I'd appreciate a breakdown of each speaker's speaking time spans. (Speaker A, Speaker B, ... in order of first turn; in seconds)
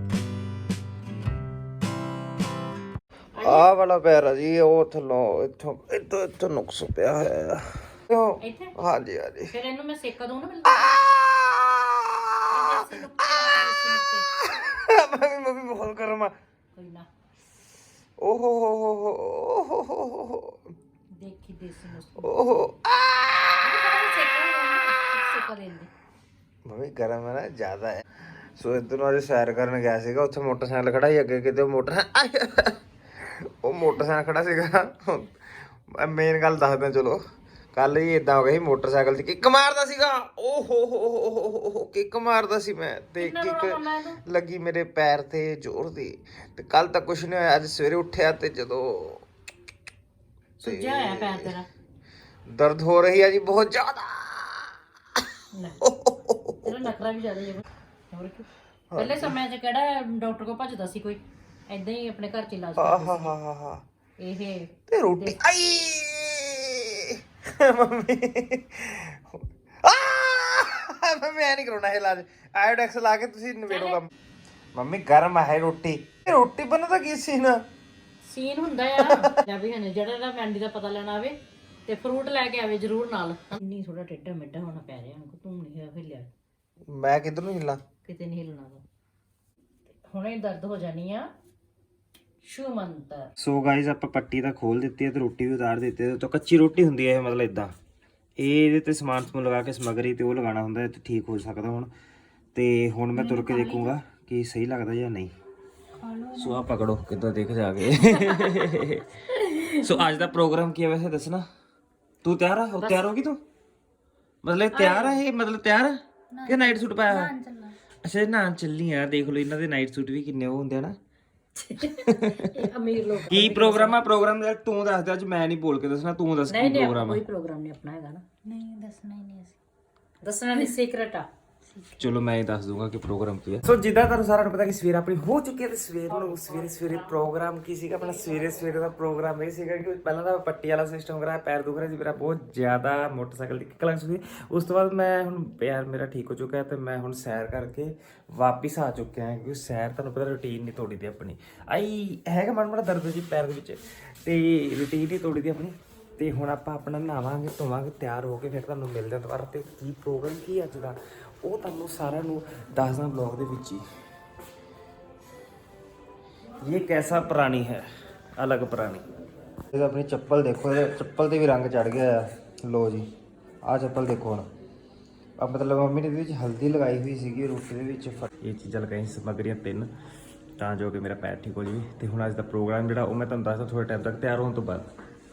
Speaker A: 3.4-3.6, 8.4-8.7, 9.5-11.0, 12.5-14.3, 16.7-17.1, 21.2-22.7, 23.6-25.9, 43.2-44.2, 50.6-51.7, 55.5-55.8, 56.6-63.3, 64.2-65.3, 73.7-74.0, 78.2-81.3, 81.9-86.3, 88.0-88.8, 90.0-91.3, 92.4-93.3, 103.1-103.9, 106.0-106.5, 108.0-108.7, 109.3-109.8, 112.8-113.1, 114.7-115.2, 116.3-117.7, 121.6-124.0, 126.5-129.5, 130.2-131.9
Speaker B: 3.4-9.5, 10.7-13.7, 14.4-16.3, 18.2-20.6, 22.2-23.7, 26.6-28.0, 28.6-35.3, 35.9-37.2, 37.7-49.2, 50.6-51.5, 52.5-54.7, 55.8-56.9, 58.9-59.4, 62.8-63.8, 64.9-74.1, 74.7-77.6, 86.9-87.8, 93.4-97.7, 98.4-101.9, 102.5-105.3, 106.3-109.1, 109.7-111.5, 112.2-113.4, 114.4-117.3, 118.0-121.0, 121.8-122.6, 123.3-127.2, 132.0-163.8, 166.6-167.8, 168.4-169.1, 169.7-173.1, 173.6-174.4, 175.4-179.9, 180.6-184.8